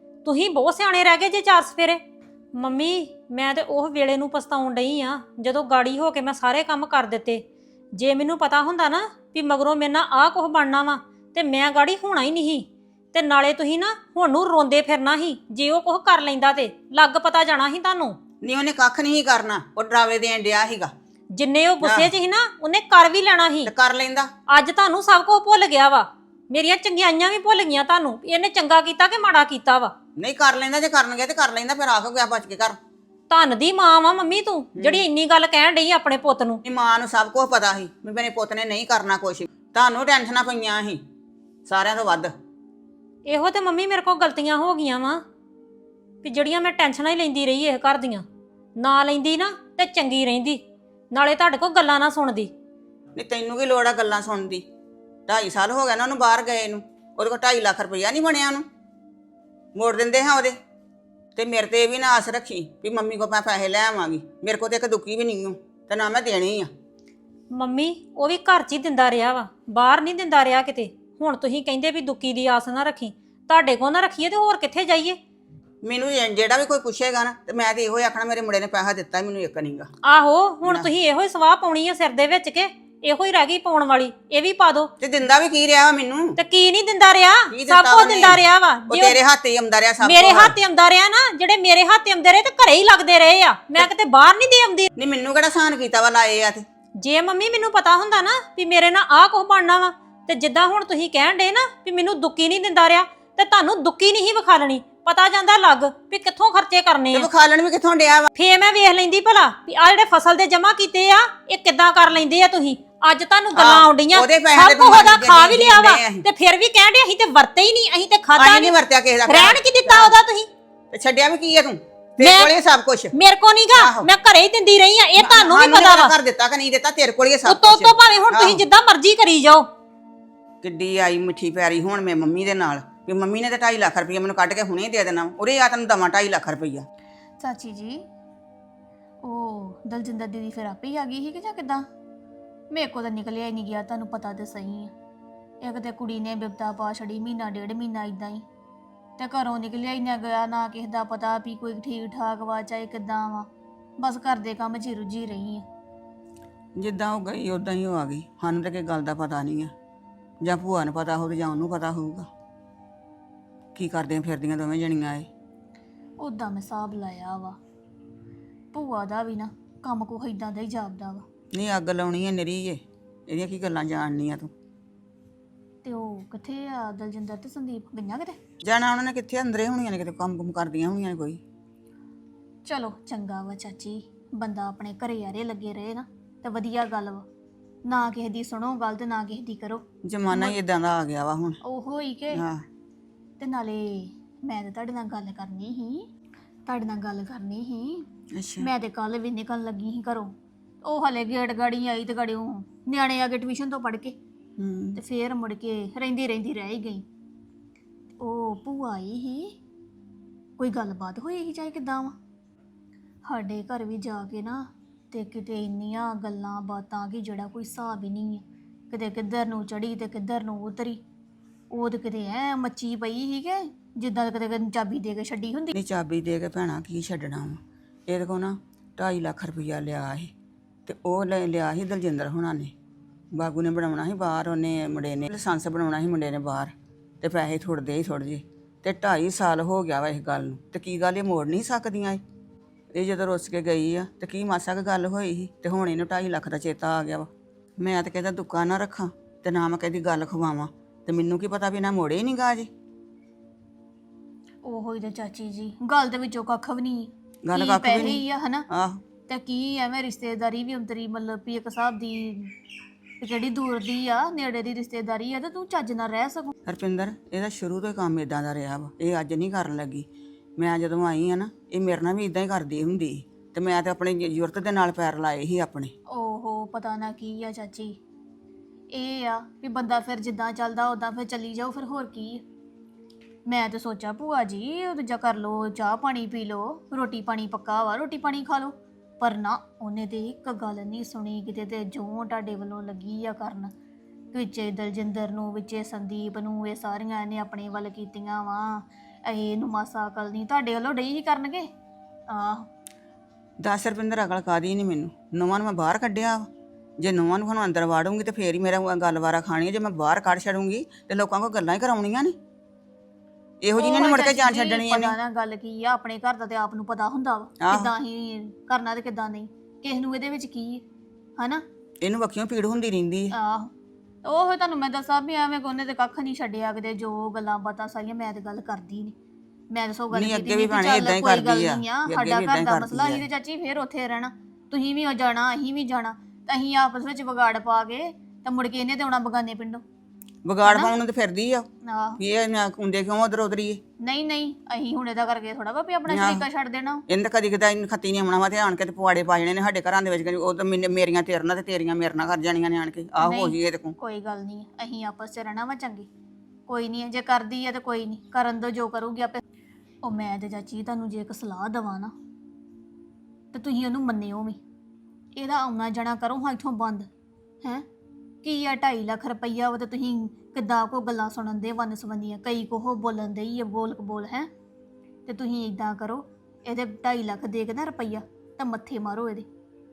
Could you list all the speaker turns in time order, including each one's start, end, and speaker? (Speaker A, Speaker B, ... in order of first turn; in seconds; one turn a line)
Speaker A: 0.2-2.0
Speaker A: 2.6-18.2
Speaker B: 18.4-20.9
Speaker A: 21.3-23.7
Speaker B: 21.8-22.1
Speaker B: 23.6-24.3
Speaker A: 24.5-29.9
Speaker B: 30.2-32.8
Speaker A: 33.3-36.6
Speaker B: 34.8-35.0
Speaker B: 36.6-41.0
Speaker B: 41.7-42.3
Speaker A: 43.3-45.2
Speaker A: 46.2-48.2
Speaker A: 48.8-50.6
Speaker A: 51.1-52.5
Speaker B: 53.2-54.7
Speaker B: 55.3-58.7
Speaker B: 59.8-60.6
Speaker B: 61.4-66.7
Speaker A: 67.5-75.2
Speaker B: 75.8-79.9
Speaker A: 80.0-84.9
Speaker B: 80.6-80.9
Speaker B: 85.0-86.4
Speaker A: 86.4-89.2
Speaker B: 87.5-90.5
Speaker A: 90.0-94.9
Speaker B: 95.0-96.7
Speaker A: 97.0-107.3
Speaker B: 107.1-108.3
Speaker A: 108.3-120.5
Speaker B: 113.5-116.3
Speaker B: 118.4-120.2
Speaker B: 120.9-123.1
Speaker A: 122.2-122.5
Speaker A: 123.1-126.2
Speaker B: 123.7-124.1
Speaker B: 125.2-128.6
Speaker A: 127.5-129.7
Speaker B: 130.6-136.8
Speaker C: 137.4-138.0
Speaker C: 139.2-141.8
Speaker C: 142.7-144.9
Speaker C: 145.6-148.4
Speaker C: 149.2-153.5
Speaker C: 154.0-155.7
Speaker B: 156.8-159.7
Speaker B: 160.4-162.3
Speaker B: 163.8-165.3
Speaker C: 166.2-167.6
Speaker C: 168.7-171.2
Speaker B: 171.6-174.5
Speaker C: 175.8-178.4
Speaker B: 178.7-181.4
Speaker C: 182.7-187.3
Speaker C: 187.9-190.6
Speaker B: 190.1-191.6
Speaker C: 191.7-192.4
Speaker B: 192.3-192.6
Speaker C: 193.4-196.1
Speaker C: 196.7-198.1
Speaker B: 198.4-198.7
Speaker C: 198.6-200.3
Speaker C: 200.8-204.2
Speaker B: 204.6-205.0
Speaker C: 205.0-207.1
Speaker C: 208.2-209.5
Speaker C: 210.6-212.1
Speaker C: 213.3-214.6
Speaker C: 215.1-221.0
Speaker C: 221.7-225.7
Speaker B: 225.7-230.3
Speaker B: 230.9-232.7
Speaker B: 233.3-242.2
Speaker B: 242.9-252.7
Speaker C: 254.7-258.6
Speaker B: 257.5-259.0
Speaker C: 259.3-262.5
Speaker C: 263.2-266.5
Speaker B: 266.7-275.9
Speaker C: 276.1-278.0
Speaker C: 278.9-282.4
Speaker C: 283.5-293.7
Speaker C: 294.3-301.7
Speaker C: 302.3-302.7
Speaker B: 303.6-306.5
Speaker B: 307.0-312.4
Speaker B: 313.6-315.1
Speaker C: 313.8-320.8
Speaker B: 317.6-317.9
Speaker C: 321.4-321.6
Speaker B: 322.0-323.3
Speaker C: 323.3-323.7
Speaker C: 324.2-329.1
Speaker C: 329.7-339.8
Speaker B: 330.1-333.2
Speaker B: 340.4-341.7
Speaker C: 340.6-340.9
Speaker C: 341.9-342.2
Speaker B: 342.2-343.8
Speaker C: 344.0-347.0
Speaker B: 346.1-346.4
Speaker B: 347.1-354.0
Speaker C: 353.2-356.1
Speaker C: 356.7-359.4
Speaker C: 360.0-362.1
Speaker C: 363.5-364.6
Speaker C: 365.4-367.1
Speaker C: 368.4-374.5
Speaker C: 375.3-379.5